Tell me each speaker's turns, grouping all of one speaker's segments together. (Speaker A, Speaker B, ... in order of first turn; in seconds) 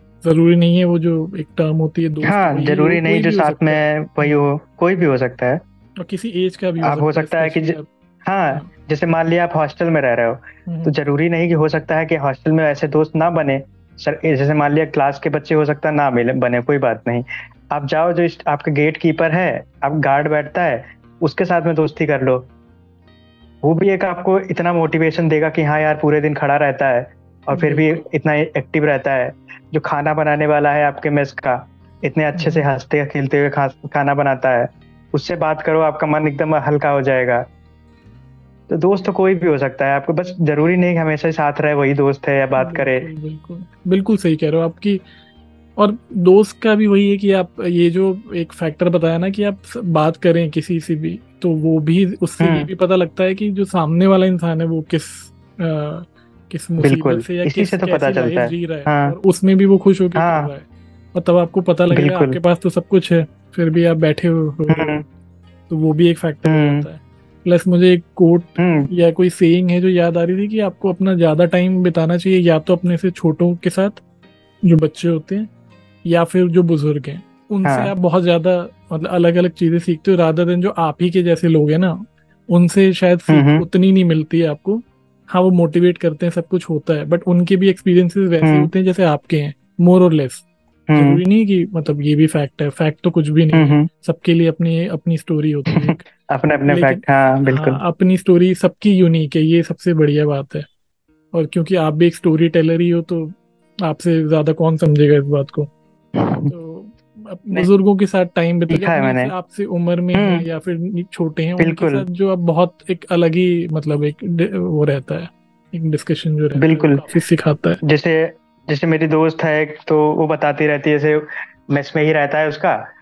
Speaker A: 0.2-4.4, 6.0-7.9, 10.7-10.9, 27.5-28.0, 32.4-32.7, 42.6-45.0, 45.8-65.0, 65.7-74.0, 74.6-75.5, 76.0-96.0, 96.7-100.7, 101.3-105.7, 106.4-117.8
Speaker B: 2.2-5.6, 6.8-22.5, 23.6-37.5, 38.7-43.1, 52.4-52.7, 56.8-59.2, 60.2-60.5, 61.9-62.4, 64.7-65.0, 66.5-66.9, 68.6-68.9, 77.6-77.9, 83.3-83.6, 88.4-88.7, 90.9-91.2, 93.5-93.9, 95.7-97.8, 106.2-106.5, 108.7-109.3, 110.1-110.5, 111.6-112.0, 116.6-117.0, 117.8-122.9